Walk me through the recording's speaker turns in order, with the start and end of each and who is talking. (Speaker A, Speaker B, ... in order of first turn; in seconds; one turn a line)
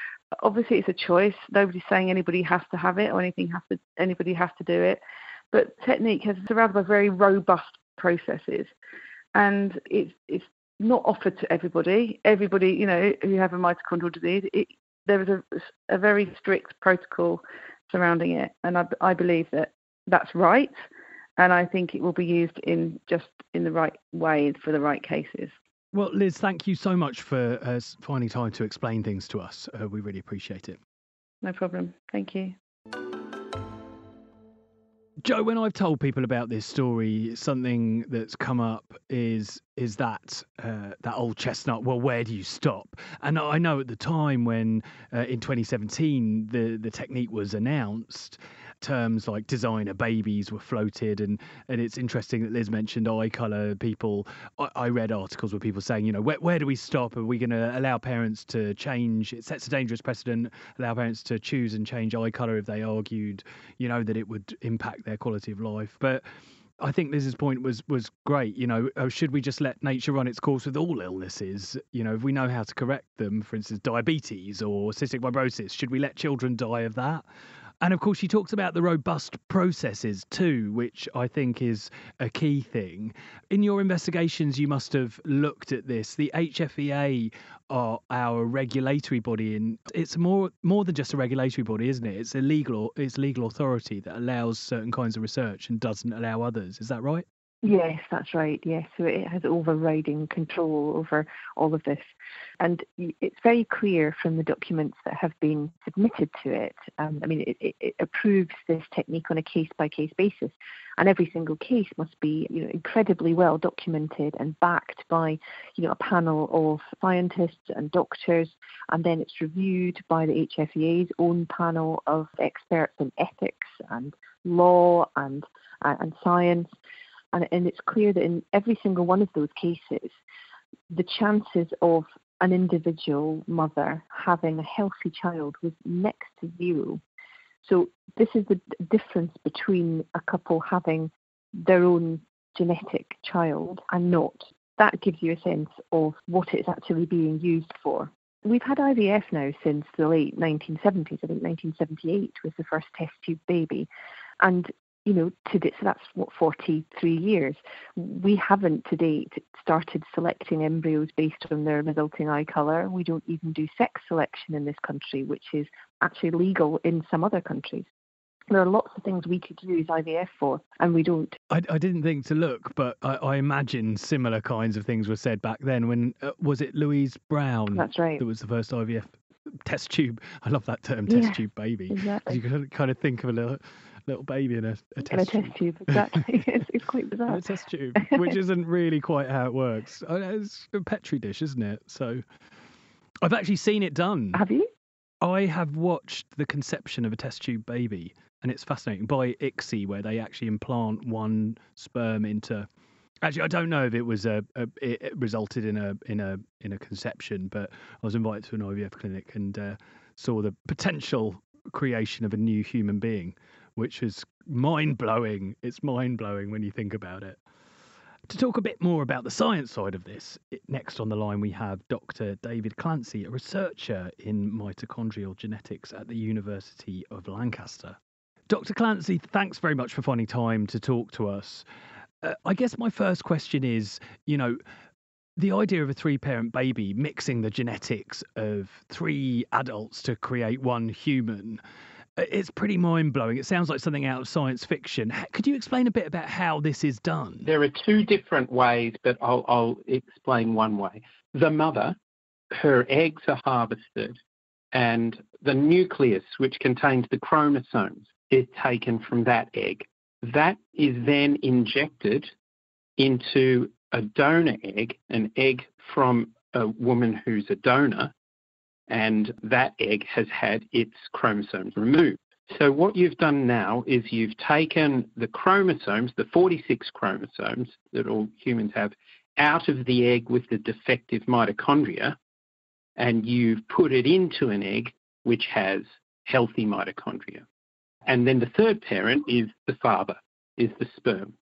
Speaker A: 0.4-5.0
Speaker A: 5.5-8.7
Speaker A: 9.3-20.8
Speaker A: 21.4-25.5
Speaker B: 25.9-30.8
Speaker A: 31.4-32.5
Speaker B: 35.2-66.2
Speaker B: 66.8-77.2
Speaker B: 77.8-97.2
Speaker C: 97.6-126.7
Speaker C: 127.3-130.1
Speaker C: 130.9-137.0
Speaker C: 137.6-153.9
Speaker C: 154.4-167.9
Speaker C: 168.5-171.4
Speaker B: 171.5-179.1
Speaker C: 177.7-178.2
Speaker B: 179.6-186.1
Speaker C: 181.1-181.4
Speaker C: 182.0-182.3
Speaker C: 185.1-187.4
Speaker B: 187.3-192.2
Speaker C: 187.9-188.2
Speaker B: 193.2-194.4
Speaker C: 194.3-194.7
Speaker B: 195.2-202.7
Speaker B: 203.2-217.4
Speaker B: 218.3-228.0
Speaker B: 228.5-231.6
Speaker B: 232.2-234.6
Speaker B: 235.4-241.6
Speaker B: 242.2-247.5
Speaker D: 247.4-252.0
Speaker D: 252.5-254.2
Speaker D: 254.7-262.3
Speaker D: 263.0-268.1
Speaker D: 268.9-282.2
Speaker D: 283.0-287.4
Speaker D: 288.1-291.3